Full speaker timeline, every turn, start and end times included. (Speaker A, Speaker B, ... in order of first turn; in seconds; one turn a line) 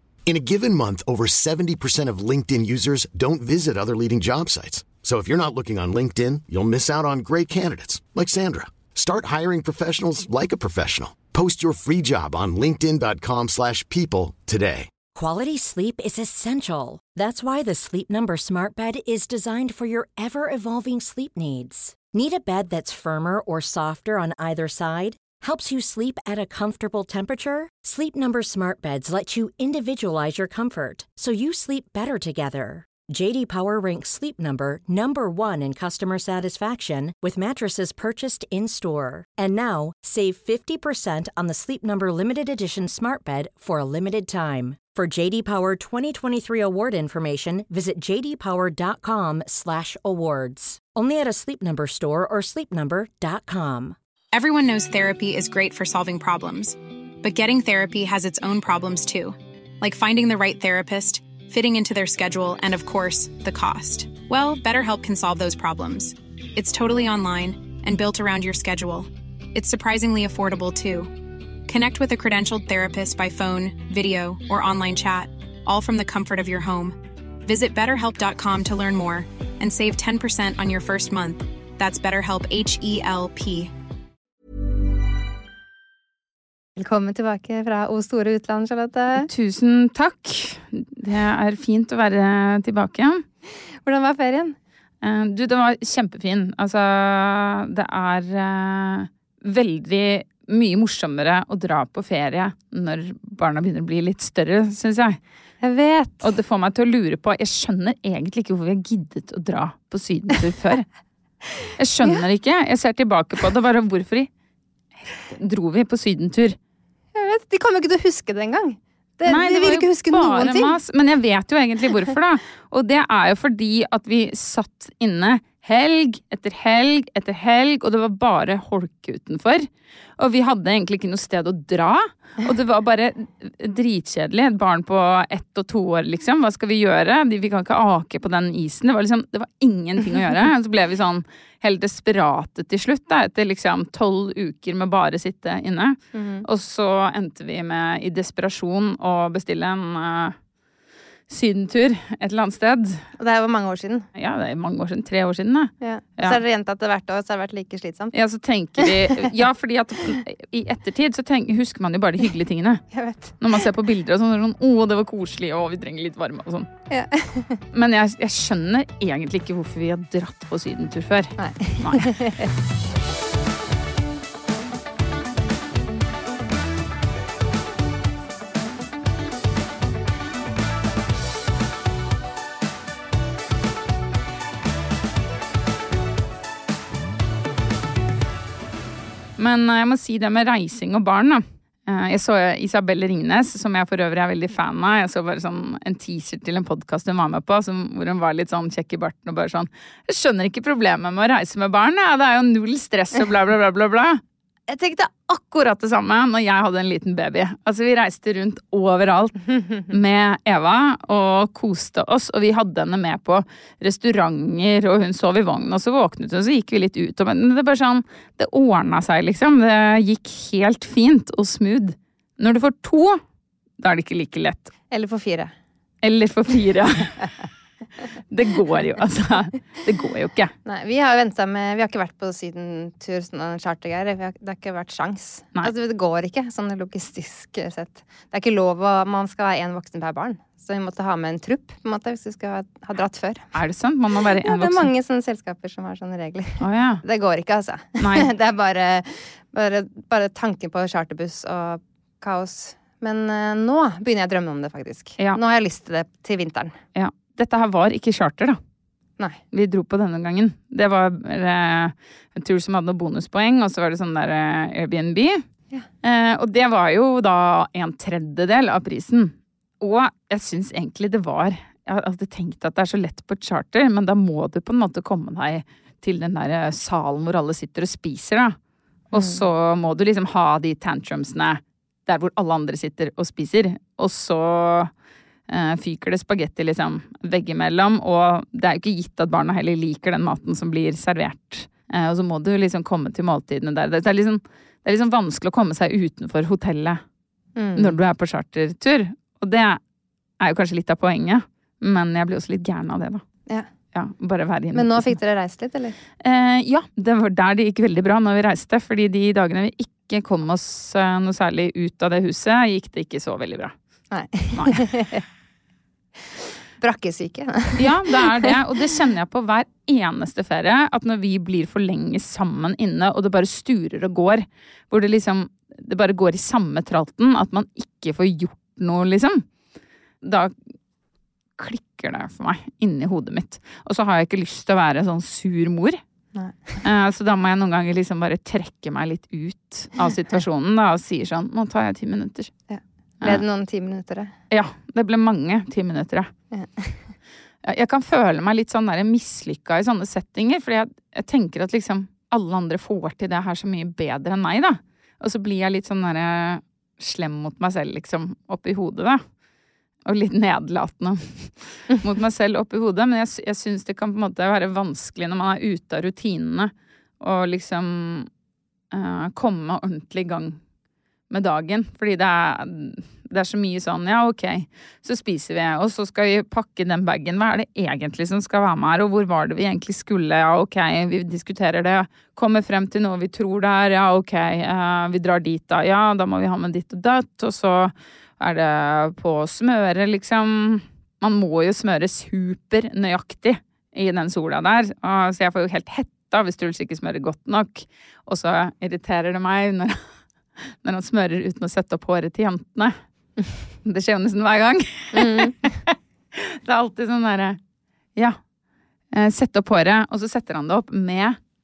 Speaker A: 0.3-14.9
Speaker B: 15.1-54.0
Speaker C: 54.3-71.2
Speaker C: 71.7-83.7
Speaker D: 86.8-89.3
Speaker E: 89.2-93.2
Speaker D: 93.8-94.5
Speaker E: 95.0-105.2
Speaker D: 105.6-106.3
Speaker E: 106.2-110.9
Speaker E: 111.8-114.3
Speaker E: 115.1-116.6
Speaker D: 117.1-120.7
Speaker E: 119.2-150.3
Speaker D: 146.1-146.4
Speaker E: 151.3-153.0
Speaker D: 153.2-154.1
Speaker E: 154.2-156.4
Speaker D: 155.8-158.2
Speaker E: 158.1-162.8
Speaker D: 158.8-159.2
Speaker D: 162.9-163.3
Speaker E: 163.4-166.7
Speaker D: 166.9-167.6
Speaker E: 167.7-172.1
Speaker D: 171.4-172.5
Speaker E: 189.4-223.2
Speaker E: 223.8-224.7
Speaker D: 224.9-225.5
Speaker E: 226.0-227.2
Speaker E: 228.3-230.5
Speaker D: 230.7-243.5
Speaker E: 243.5-244.9
Speaker D: 244.3-256.7
Speaker E: 246.6-247.0
Speaker E: 248.0-248.3
Speaker E: 256.9-258.6
Speaker E: 259.5-265.4
Speaker E: 266.0-278.6
Speaker E: 279.1-284.9
Speaker D: 279.1-279.4
Speaker E: 285.5-297.0
Speaker D: 297.6-298.0
Speaker E: 297.8-299.8
Speaker E: 300.4-303.2
Speaker E: 303.9-305.2
Speaker D: 304.7-306.0
Speaker E: 306.2-313.7
Speaker D: 314.1-315.2
Speaker D: 316.8-318.4
Speaker E: 317.8-329.4
Speaker E: 330.2-330.5
Speaker E: 331.6-336.0
Speaker D: 336.3-336.8
Speaker E: 336.8-342.5
Speaker D: 342.7-344.3
Speaker E: 344.5-346.3
Speaker D: 346.5-347.1
Speaker E: 347.6-359.2
Speaker E: 360.1-368.3
Speaker E: 368.9-370.6
Speaker E: 371.3-400.0
Speaker E: 400.6-402.9
Speaker E: 403.8-407.6
Speaker D: 405.1-405.6
Speaker E: 409.1-411.4